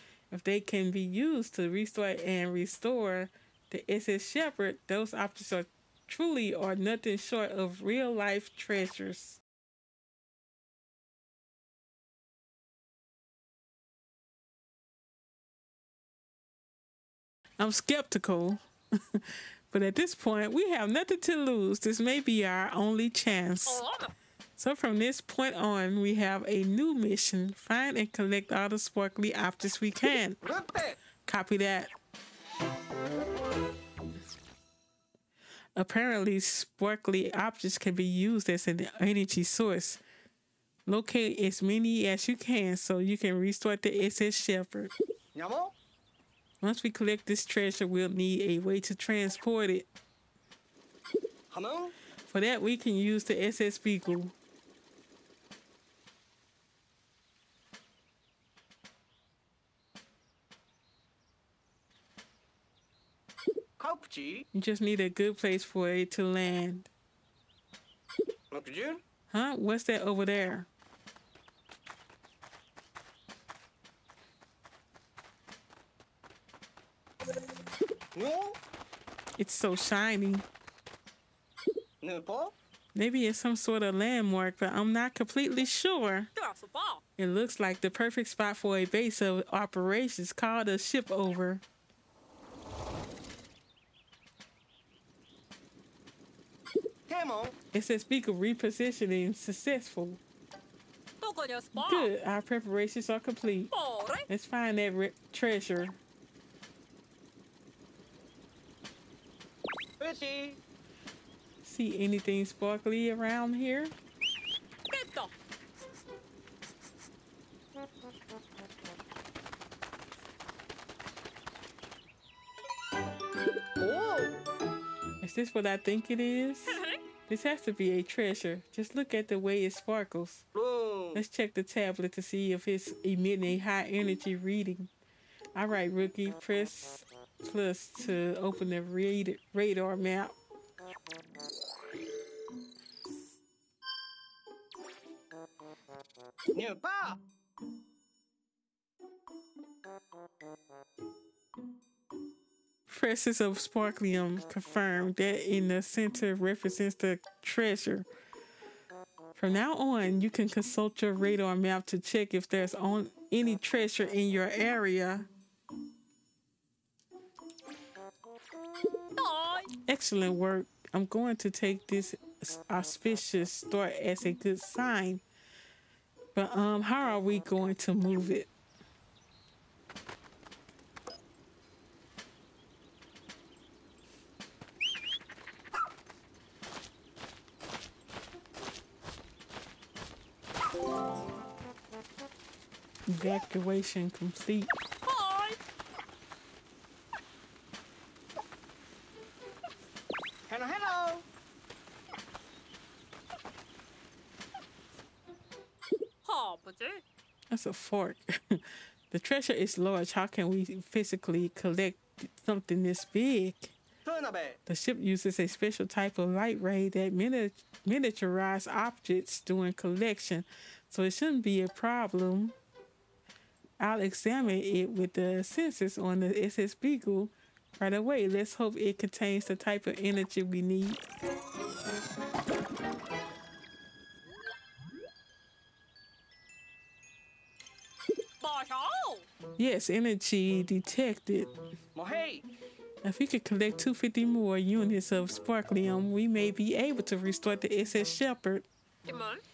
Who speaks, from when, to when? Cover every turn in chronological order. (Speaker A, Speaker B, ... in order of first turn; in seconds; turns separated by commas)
Speaker A: 0.3-9.4, Speaker A: 17.6-18.6, Speaker A: 19.1-23.8, Speaker B: 23.7-24.1, Speaker A: 24.6-30.4, Speaker C: 30.4-31.0, Speaker A: 31.3-31.9, Speaker A: 35.8-40.0, Speaker A: 40.9-44.9, Speaker C: 45.4-45.7, Speaker A: 46.6-49.9, Speaker C: 51.5-51.9, Speaker A: 52.3-54.3, Speaker C: 63.8-64.5, Speaker A: 64.5-66.9, Speaker C: 68.5-69.0, Speaker A: 69.3-70.7, Speaker C: 78.1-78.6, Speaker A: 79.4-80.5, Speaker C: 82.0-82.5, Speaker A: 83.0-86.3, Speaker B: 86.3-87.0, Speaker A: 87.2-91.6, Speaker C: 97.1-97.5, Speaker A: 97.7-100.2, Speaker B: 101.2-102.1, Speaker A: 101.8-103.7, Speaker B: 103.7-104.2, Speaker A: 104.3-106.0, Speaker C: 110.0-110.6, Speaker A: 111.6-113.9, Speaker B: 114.9-115.3, Speaker C: 123.8-124.4, Speaker A: 125.2-130.4, Speaker B: 126.7-127.0, Speaker C: 130.5-131.2, Speaker A: 131.1-134.9, Speaker A: 135.6-140.4, Speaker C: 146.5-147.2, Speaker A: 152.9-158.1, Speaker A: 159.4-165.3, Speaker B: 169.2-169.7, Speaker A: 169.8-175.2, Speaker A: 176.3-178.5, Speaker A: 193.1-194.7, Speaker B: 195.1-195.6, Speaker C: 200.5-201.3, Speaker B: 206.2-207.0, Speaker A: 207.5-213.8, Speaker C: 214.0-214.6, Speaker A: 214.7-222.6, Speaker A: 223.8-231.0, Speaker B: 238.4-239.3, Speaker A: 239.6-241.5, Speaker C: 241.9-242.4, Speaker A: 243.0-248.7, Speaker B: 249.1-249.4